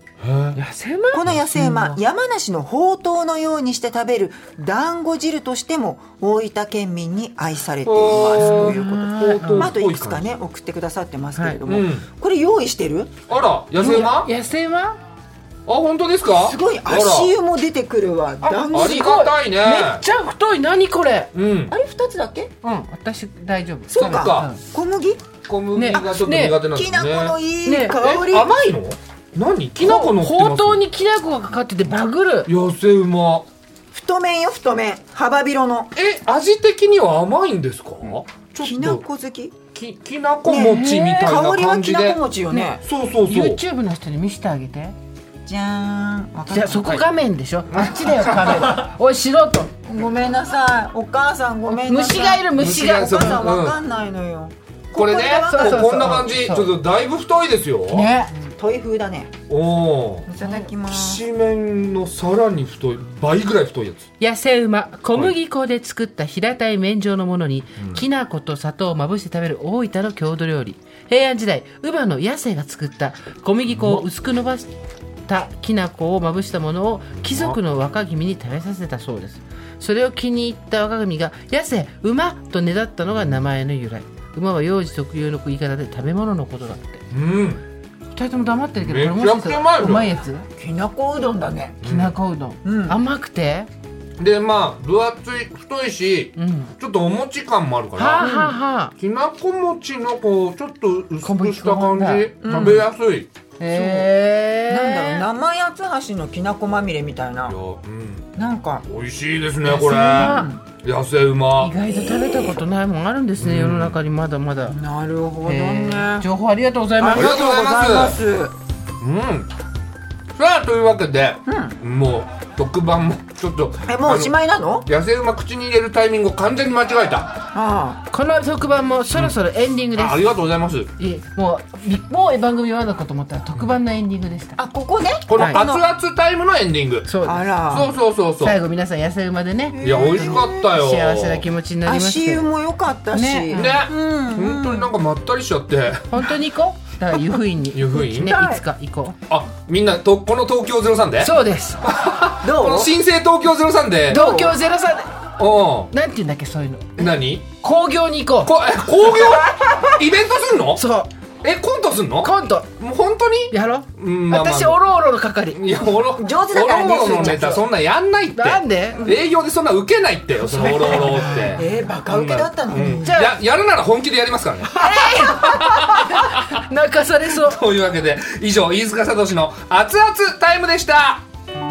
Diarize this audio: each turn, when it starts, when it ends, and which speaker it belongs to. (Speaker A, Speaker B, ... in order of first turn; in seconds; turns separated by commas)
Speaker A: 0.2-0.6, Speaker B: 0.5-2.0, Speaker C: 1.1-13.2, Speaker A: 7.8-10.2, Speaker B: 8.2-9.7, Speaker A: 11.7-12.0, Speaker A: 13.3-14.3, Speaker B: 13.8-15.0, Speaker A: 15.7-17.3, Speaker C: 16.4-19.2, Speaker B: 18.4-21.3, Speaker A: 18.7-20.0, Speaker A: 21.3-21.7, Speaker C: 21.7-22.5, Speaker B: 22.6-24.6, Speaker C: 23.9-25.3, Speaker A: 24.0-24.5, Speaker A: 25.5-27.4, Speaker B: 25.7-26.6, Speaker C: 25.9-28.5, Speaker B: 27.6-28.0, Speaker A: 27.9-30.8, Speaker B: 29.8-32.5, Speaker A: 32.5-33.5, Speaker C: 33.9-35.9, Speaker A: 36.0-39.0, Speaker C: 38.6-39.5, Speaker A: 39.7-42.2, Speaker C: 40.4-42.8, Speaker B: 40.6-41.4, Speaker B: 42.5-45.0, Speaker A: 42.8-43.6, Speaker C: 45.5-47.0, Speaker B: 46.5-49.7, Speaker A: 47.7-48.9, Speaker C: 49.8-56.1, Speaker B: 51.7-53.4, Speaker A: 52.5-53.8, Speaker A: 54.9-58.1, Speaker B: 55.4-56.7, Speaker B: 57.9-58.4, Speaker C: 58.3-59.4, Speaker A: 59.5-64.0, Speaker C: 60.2-61.2, Speaker B: 64.2-74.7, Speaker A: 67.8-68.0, Speaker A: 73.7-74.0, Speaker B: 75.3-87.0, Speaker A: 77.2-77.6, Speaker A: 87.1-87.6, Speaker B: 88.1-90.5, Speaker A: 88.8-90.1, Speaker C: 90.5-91.8, Speaker A: 91.8-92.1, Speaker B: 91.8-93.7, Speaker C: 92.6-93.0, Speaker A: 94.2-103.3, Speaker B: 96.3-96.7, Speaker B: 97.9-98.9, Speaker C: 98.2-98.5, Speaker B: 101.2-102.8, Speaker C: 102.4-102.8, Speaker B: 103.6-105.2, Speaker C: 103.7-104.1, Speaker C: 104.7-107.6, Speaker A: 107.5-108.3, Speaker C: 108.3-108.9, Speaker A: 108.9-111.7, Speaker B: 109.7-110.5, Speaker C: 109.7-110.6, Speaker B: 111.6-114.8, Speaker C: 111.8-112.7, Speaker A: 113.4-114.0, Speaker C: 114.6-116.3, Speaker B: 115.4-117.3, Speaker C: 117.0-118.5, Speaker A: 117.1-118.2, Speaker A: 119.0-119.5, Speaker A: 120.3-124.3, Speaker C: 121.5-121.8, Speaker C: 123.8-124.9, Speaker A: 124.8-127.4, Speaker C: 127.5-128.0, Speaker B: 128.1-130.2, Speaker A: 129.9-130.9, Speaker B: 131.0-134.6, Speaker C: 134.6-135.8, Speaker A: 135.3-137.1, Speaker B: 135.4-135.6, Speaker B: 137.0-137.8, Speaker C: 137.2-137.9, Speaker A: 137.7-138.6, Speaker B: 138.4-142.5, Speaker C: 139.7-140.6, Speaker A: 139.8-141.4, Speaker C: 141.8-144.9, Speaker B: 143.1-143.8, Speaker A: 143.5-146.2, Speaker B: 146.1-149.2, Speaker A: 147.7-148.3, Speaker C: 148.2-148.6, Speaker A: 149.3-151.3, Speaker B: 151.2-151.8, Speaker A: 151.8-154.2, Speaker C: 152.4-152.9, Speaker C: 154.1-154.6, Speaker B: 154.1-155.1, Speaker A: 155.4-155.9, Speaker B: 155.9-160.0, Speaker A: 157.0-157.5, Speaker A: 158.4-160.8, Speaker B: 160.7-161.1, Speaker A: 161.4-164.8, Speaker B: 162.2-162.7, Speaker B: 163.5-165.6, Speaker A: 165.5-176.6, Speaker C: 166.2-167.7, Speaker B: 167.1-167.5, Speaker B: 168.3-169.1, Speaker C: 170.6-173.1, Speaker B: 173.0-173.3, Speaker B: 174.7-177.6, Speaker C: 174.9-175.8, Speaker A: 177.3-181.2